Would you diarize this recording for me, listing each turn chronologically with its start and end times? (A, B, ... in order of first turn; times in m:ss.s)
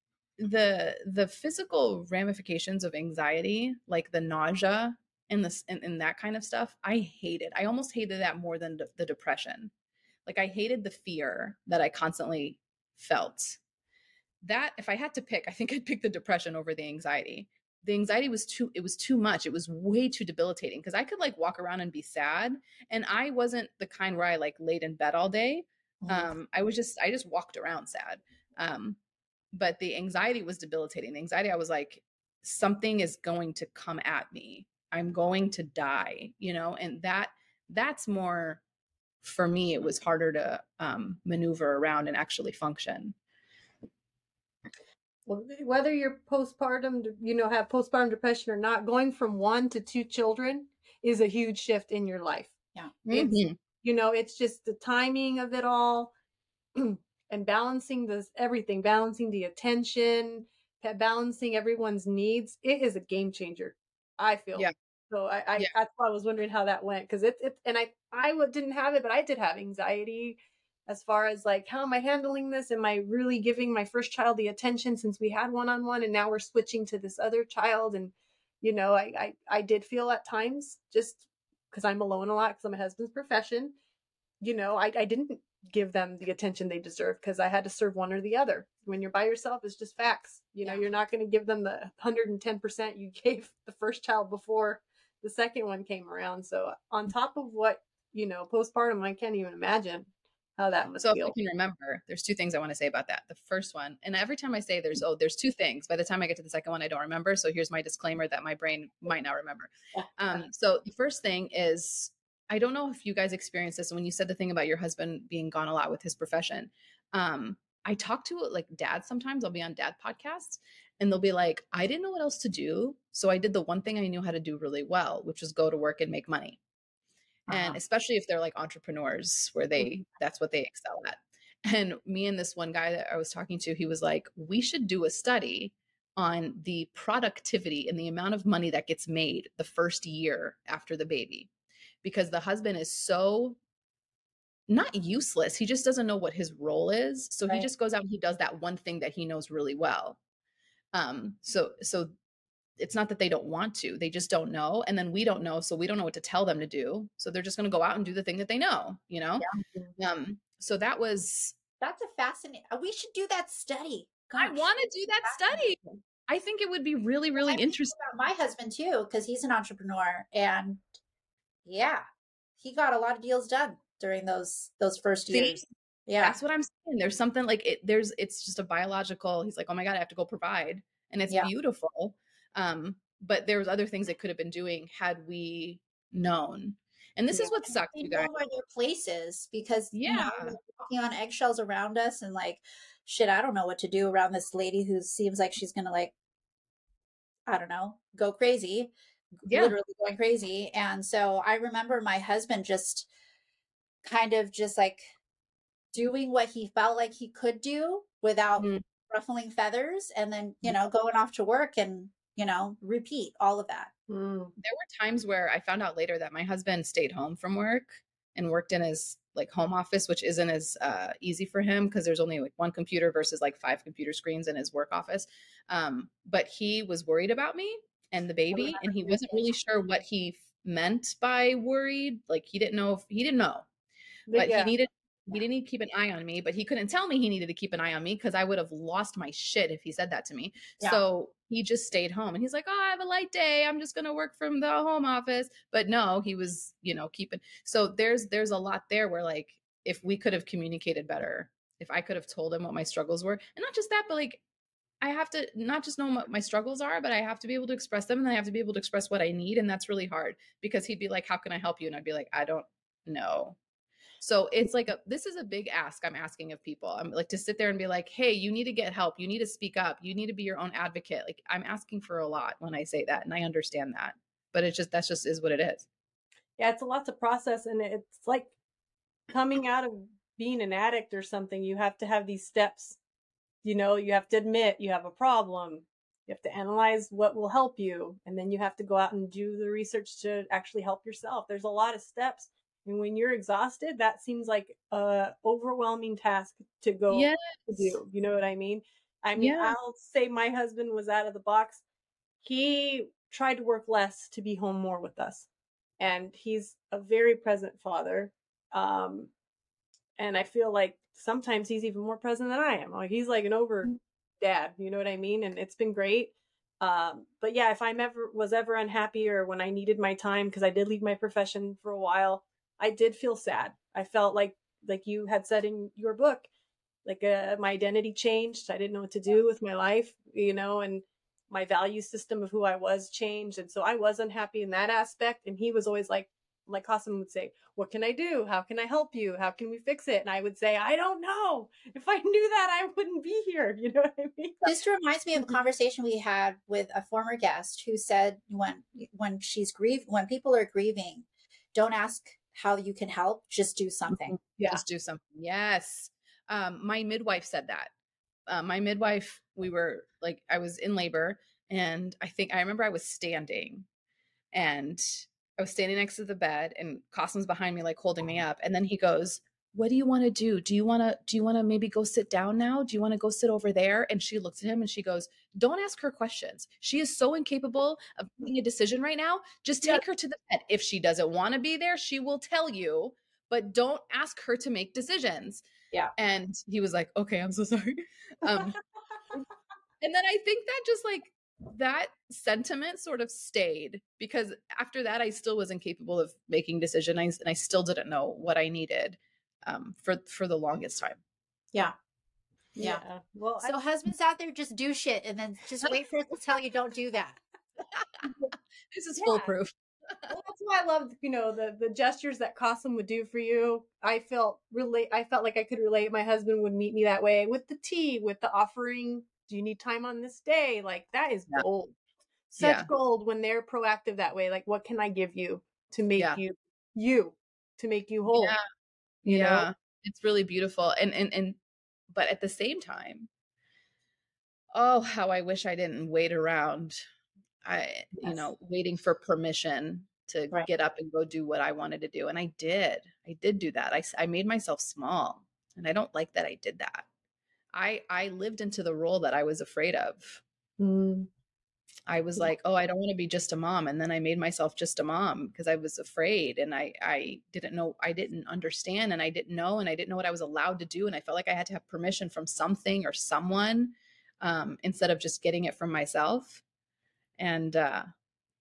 0:00.4-0:09.7 A
0:10.3-0:13.6 A
0:14.4-0:29.0 A
0:26.0-0:26.3 B
0:29.5-0:38.6 A
0:39.2-0:43.2 A
0:45.3-0:52.5 C
0:53.1-0:53.6 A
0:53.1-0:56.1 C
0:56.8-1:23.8 C
1:24.4-1:41.3 C
1:41.0-2:06.6 A
1:49.9-1:50.4 B
2:07.5-2:07.8 B
2:07.5-2:21.5 A
2:22.0-2:23.6 A
2:24.7-2:30.2 A
2:30.9-2:32.1 A
2:32.8-2:39.5 A
2:40.0-2:41.6 A
2:41.8-2:44.7 B
2:44.4-2:48.0 A
2:45.2-2:45.6 B
2:47.4-2:50.8 B
2:51.6-2:52.0 B
2:52.6-2:56.4 B
2:55.3-2:55.6 A
2:56.2-3:08.3 A
3:07.3-3:16.1 B
3:09.9-3:10.6 A
3:17.5-3:23.1 B
3:19.5-3:19.8 A
3:24.0-3:25.0 B
3:25.9-3:33.9 B
3:34.1-3:34.5 C
3:34.6-3:53.6 A
3:54.3-3:54.7 C
3:54.4-4:14.4 A
4:15.0-4:23.6 A
4:24.2-4:35.9 A
4:36.6-4:38.5 C
4:39.3-4:43.0 C
4:43.6-5:01.8 C
4:57.1-4:58.0 A
4:59.4-4:59.8 A
5:02.4-5:05.5 C
5:06.0-5:09.3 C
5:10.2-5:26.5 C
5:27.0-5:44.6 C
5:44.6-5:54.4 B
5:54.1-5:57.9 A
5:58.5-6:03.9 A
6:04.5-6:25.6 A
6:26.2-6:28.8 A
6:30.0-6:41.2 A
6:42.8-6:43.7 C
6:42.8-6:47.4 B
6:48.9-6:50.3 A
6:49.2-6:49.5 C
6:50.3-7:02.0 C
7:02.5-7:08.6 C
7:02.6-7:02.9 A
7:08.3-7:08.6 A
7:09.2-7:11.6 A
7:09.3-7:09.7 C
7:12.1-7:13.3 A
7:14.7-7:17.0 A
7:17.6-7:27.1 A
7:27.7-7:30.4 A
7:30.8-7:31.3 C
7:32.1-7:46.6 A
7:47.4-7:48.1 A